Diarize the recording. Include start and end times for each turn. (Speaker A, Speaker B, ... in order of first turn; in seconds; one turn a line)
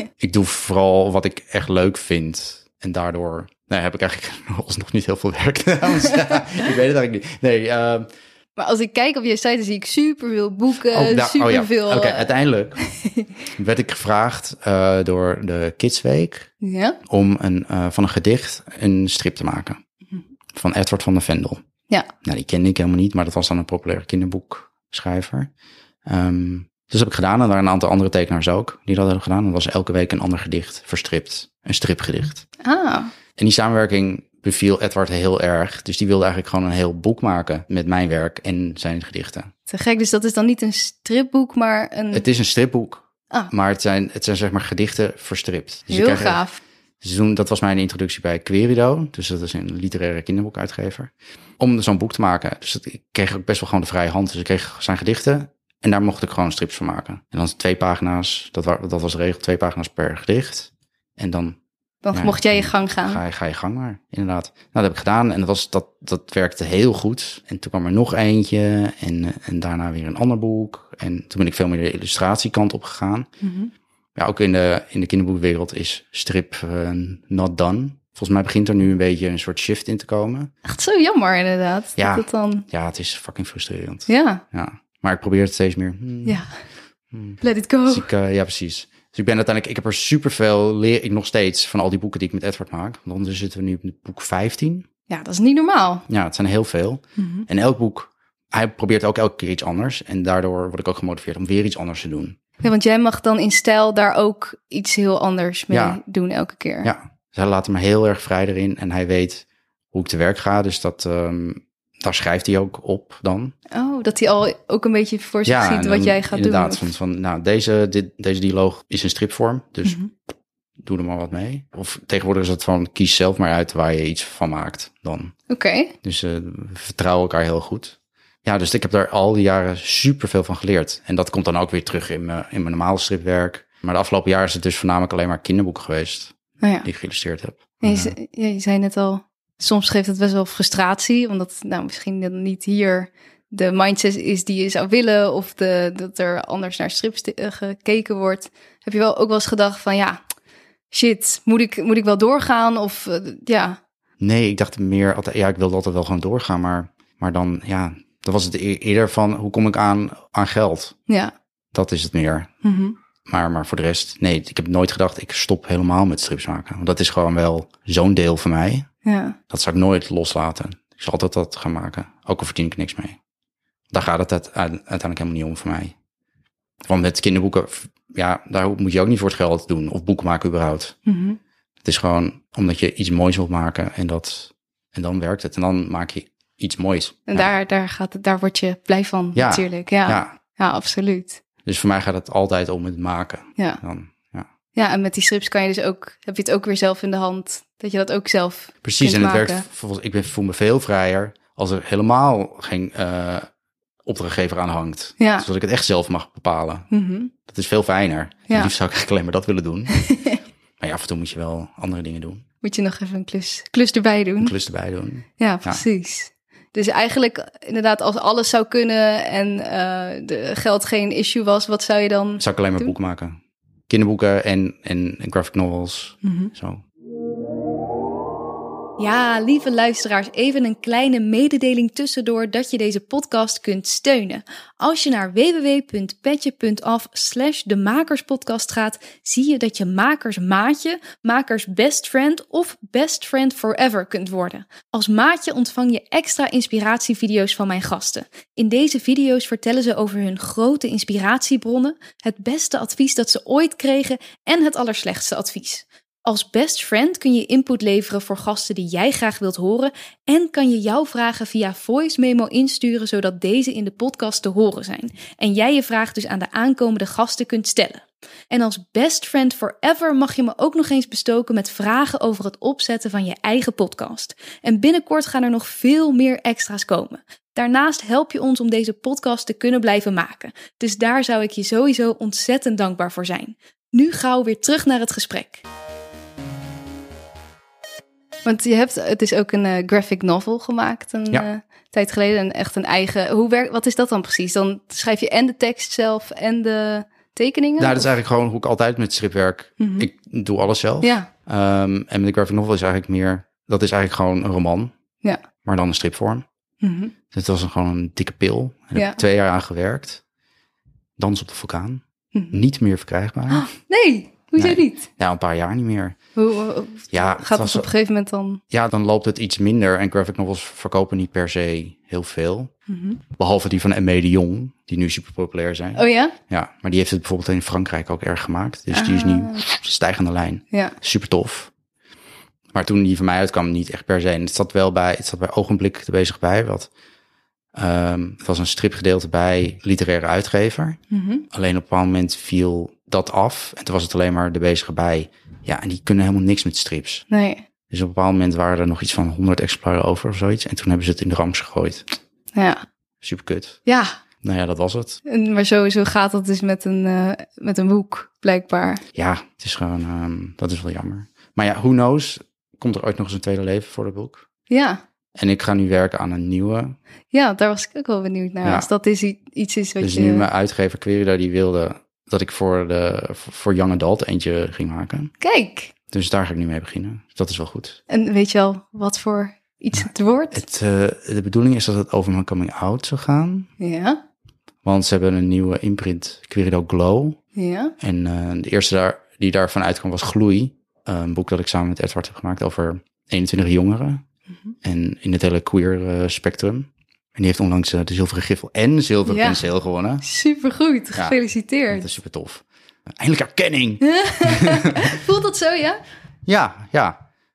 Speaker A: 0.2-8.1
Speaker B: 8.6-13.3
Speaker A: 10.9-12.8
Speaker A: 13.5-16.5
Speaker B: 16.6-17.0
Speaker A: 17.1-19.8
Speaker A: 20.5-21.6
Speaker A: 22.2-25.5
Speaker A: 26.1-32.5
Speaker B: 32.6-33.1
Speaker A: 33.4-39.5
Speaker B: 39.7-42.2
Speaker A: 42.1-46.4
Speaker B: 45.9-46.6
Speaker A: 47.0-61.6
Speaker B: 62.0-63.2
Speaker A: 62.1-73.3
Speaker B: 73.4-73.7
Speaker A: 74.1-80.5
Speaker B: 80.6-82.7
Speaker A: 82.0-86.4
Speaker B: 84.1-84.4
Speaker A: 87.1-94.9
Speaker B: 87.4-88.1
Speaker B: 95.1-96.1
Speaker A: 96.1-102.4
Speaker B: 97.2-97.5
Speaker B: 102.6-106.9
Speaker A: 105.7-106.0
Speaker A: 106.8-113.5
Speaker B: 113.7-116.9
Speaker A: 115.5-120.0
Speaker B: 119.8-120.1
Speaker A: 120.8-125.3
Speaker B: 125.5-125.9
Speaker A: 126.0-138.1
Speaker B: 136.6-136.9
Speaker B: 137.8-150.2
Speaker B: 150.9-153.8
Speaker A: 154.2-160.9
Speaker B: 161.1-161.3
Speaker A: 161.7-162.5
Speaker B: 162.6-162.9
Speaker A: 163.2-168.9
Speaker B: 169.0-169.4
Speaker A: 169.5-173.2
Speaker A: 173.9-175.9
Speaker A: 176.8-180.9
Speaker B: 181.1-181.4
Speaker A: 181.8-187.5
Speaker B: 187.3-191.4
Speaker A: 189.3-190.3
Speaker A: 191.6-194.5
Speaker B: 194.7-199.6
Speaker A: 198.8-203.5
Speaker A: 204.0-206.9
Speaker B: 205.2-205.4
Speaker B: 206.9-207.3
Speaker A: 207.4-210.0
Speaker B: 209.9-210.4
Speaker A: 210.8-212.4
Speaker B: 212.6-214.5
Speaker A: 214.4-215.8
Speaker B: 215.4-222.9
Speaker A: 222.4-223.4
Speaker A: 223.9-226.8
Speaker B: 226.2-226.5
Speaker B: 229.0-285.6
Speaker B: 288.4-298.1
Speaker A: 297.8-304.9
Speaker B: 299.8-300.1
Speaker B: 301.0-301.3
Speaker A: 305.6-306.4
Speaker B: 306.8-307.1
Speaker A: 307.3-310.2
Speaker B: 308.9-309.2
Speaker A: 311.2-313.7
Speaker B: 312.3-312.6
Speaker B: 313.5-315.1
Speaker A: 314.6-316.2
Speaker B: 316.4-318.6
Speaker A: 317.1-317.9
Speaker A: 318.7-322.7
Speaker B: 322.9-323.2
Speaker A: 323.4-331.7
Speaker B: 325.9-326.3
Speaker B: 328.9-329.6
Speaker A: 332.7-336.9
Speaker A: 337.7-341.0
Speaker B: 341.1-341.4
Speaker A: 341.5-347.2
Speaker B: 347.3-347.6
Speaker A: 347.9-352.0
Speaker B: 352.5-352.8
Speaker A: 353.2-353.8
Speaker B: 353.9-354.1
Speaker A: 354.4-355.2
Speaker B: 355.2-359.0
Speaker A: 359.1-364.4
Speaker B: 364.7-365.0
Speaker A: 365.3-367.0
Speaker B: 367.3-370.4
Speaker A: 370.0-375.3
Speaker B: 375.4-375.9
Speaker A: 376.1-378.0
Speaker B: 378.1-380.6
Speaker A: 380.5-383.7
Speaker B: 383.8-384.2
Speaker A: 384.8-387.4
Speaker B: 387.5-387.9
Speaker A: 388.0-394.2
Speaker A: 394.8-400.2
Speaker B: 399.2-399.6
Speaker B: 400.2-402.1
Speaker A: 401.9-402.6
Speaker A: 403.2-405.1
Speaker B: 404.0-406.0
Speaker A: 406.4-407.2